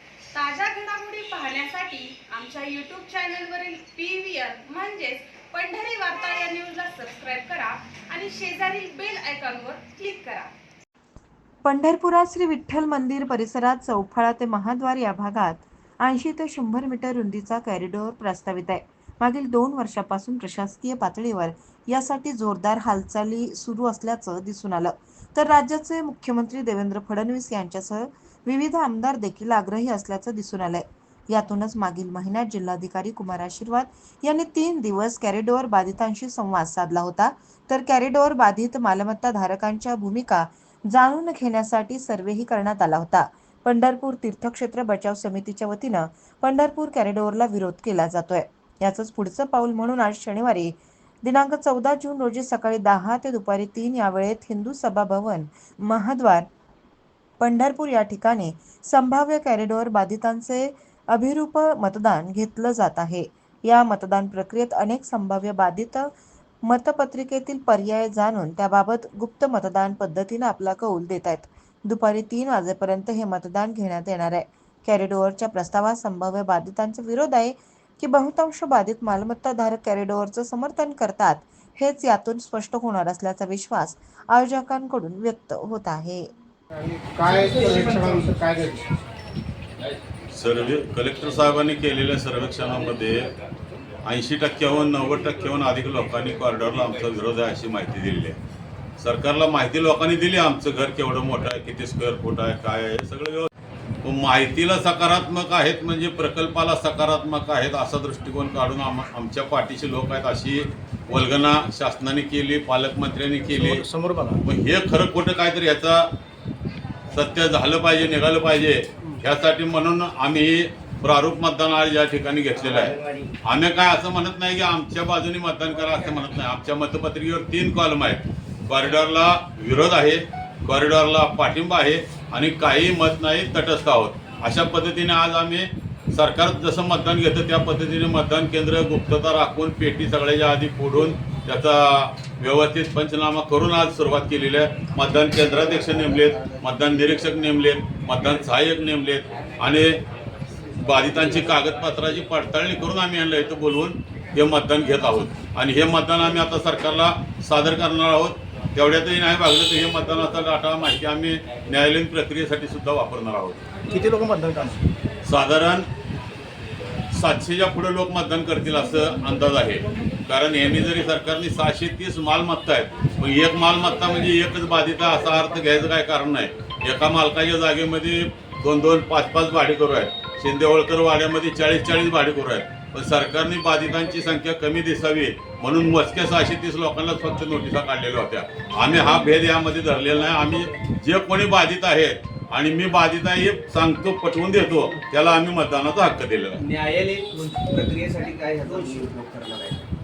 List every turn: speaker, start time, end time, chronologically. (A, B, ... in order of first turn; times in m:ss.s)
0:00.4-0:10.5 A
0:11.6-0:56.5 B
0:57.4-1:06.1 B
1:06.6-1:26.3 B
1:27.2-1:28.8 C
1:30.3-1:33.3 D
1:34.0-1:38.4 D
1:39.0-1:43.5 D
1:44.0-1:53.8 D
1:53.5-1:54.5 E
1:54.4-1:56.0 D
1:57.1-2:29.9 D
2:02.6-2:03.2 C
2:30.8-2:43.6 D
2:43.9-2:44.8 E
2:45.3-2:45.9 D
2:47.2-3:16.6 D
3:16.6-3:19.8 C